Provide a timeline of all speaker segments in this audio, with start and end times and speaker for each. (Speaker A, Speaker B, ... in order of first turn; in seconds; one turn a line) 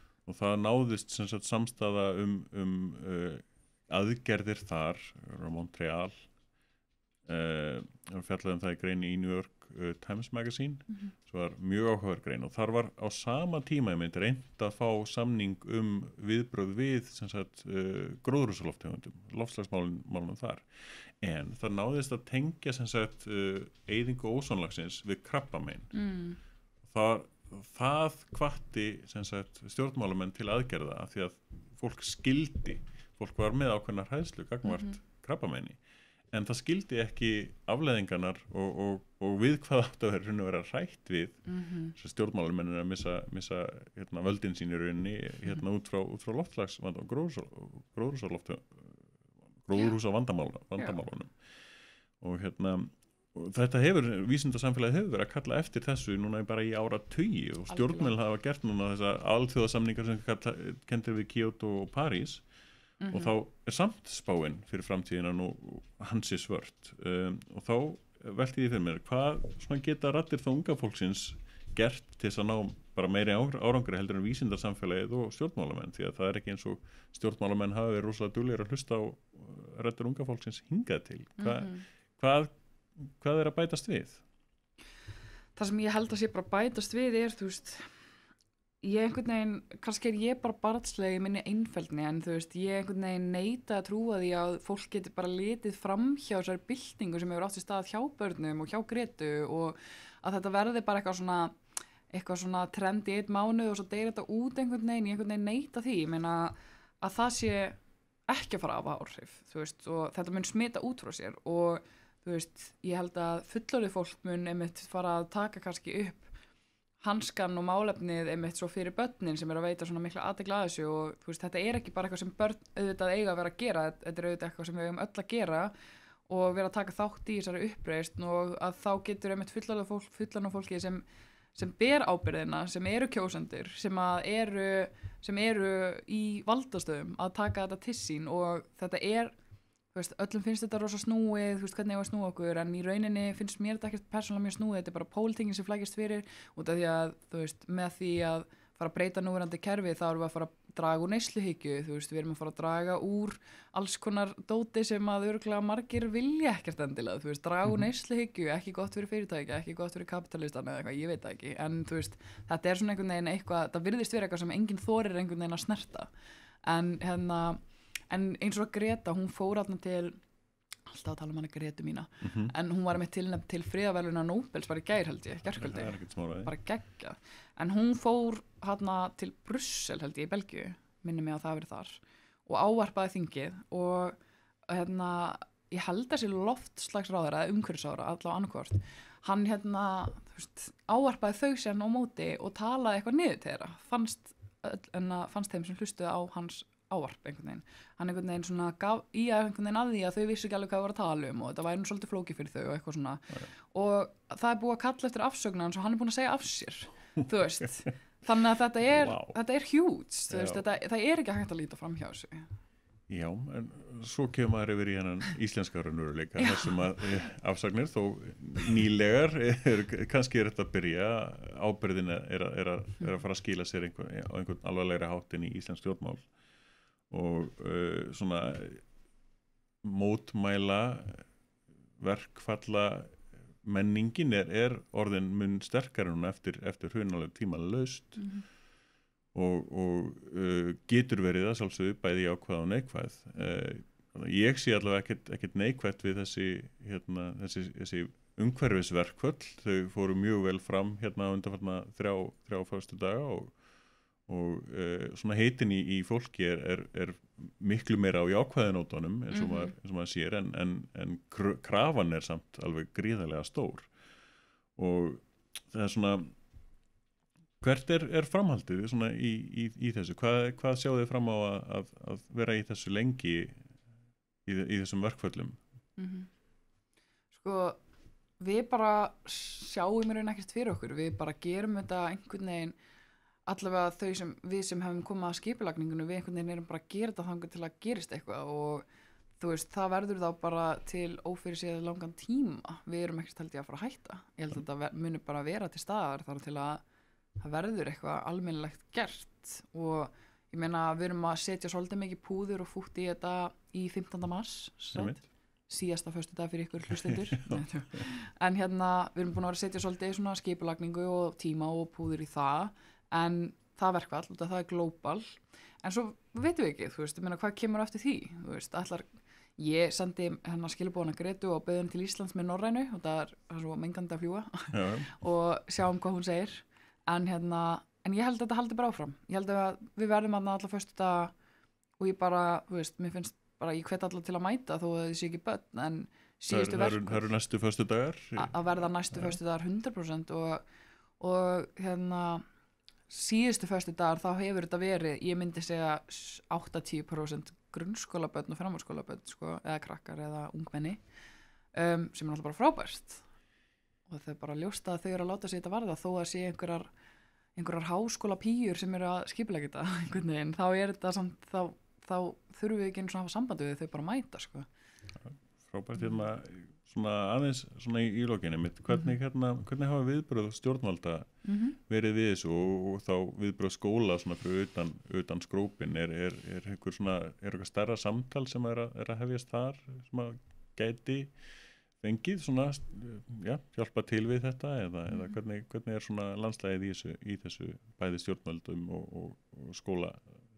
Speaker A: 0.3-6.3
Speaker A: 7.3-25.9
Speaker B: 25.9-26.4
Speaker A: 26.9-35.8
Speaker B: 34.7-34.9
Speaker A: 36.3-51.4
Speaker B: 41.5-41.9
Speaker A: 52.2-62.5
Speaker B: 57.7-58.1
Speaker B: 63.0-63.3
Speaker A: 63.1-84.2
Speaker B: 81.4-81.8
Speaker B: 85.6-87.9
Speaker B: 88.8-101.6
Speaker B: 102.1-107.8
Speaker B: 108.3-116.3
Speaker B: 117.0-125.7
Speaker B: 126.3-139.3
Speaker B: 139.9-166.1
Speaker B: 166.7-170.2
Speaker B: 170.9-184.2
Speaker A: 172.2-172.5
Speaker A: 175.5-176.5
Speaker B: 184.7-212.5
Speaker A: 208.9-209.4
Speaker A: 210.3-210.6
Speaker A: 213.1-226.3
Speaker B: 216.4-216.7
Speaker A: 227.1-228.8
Speaker A: 229.8-231.3
Speaker A: 232.0-238.3
Speaker B: 238.2-238.4
Speaker A: 239.3-253.6
Speaker A: 254.3-263.9
Speaker B: 259.3-259.7
Speaker A: 264.8-266.3
Speaker A: 267.6-273.6
Speaker A: 274.5-275.6
Speaker B: 276.0-276.3
Speaker B: 277.3-277.8
Speaker B: 278.4-282.8
Speaker B: 283.5-288.9
Speaker B: 289.4-296.8
Speaker B: 297.4-331.3
Speaker A: 304.9-305.2
Speaker A: 307.0-307.6
Speaker A: 324.7-325.1
Speaker B: 332.0-337.3
Speaker A: 336.5-338.6
Speaker B: 338.4-340.6
Speaker A: 339.1-339.4
Speaker B: 341.2-342.4
Speaker B: 343.1-351.0
Speaker B: 351.8-353.2
Speaker B: 354.1-356.9
Speaker B: 357.6-364.7
Speaker A: 365.2-381.3
Speaker B: 371.4-371.8
Speaker A: 382.0-390.2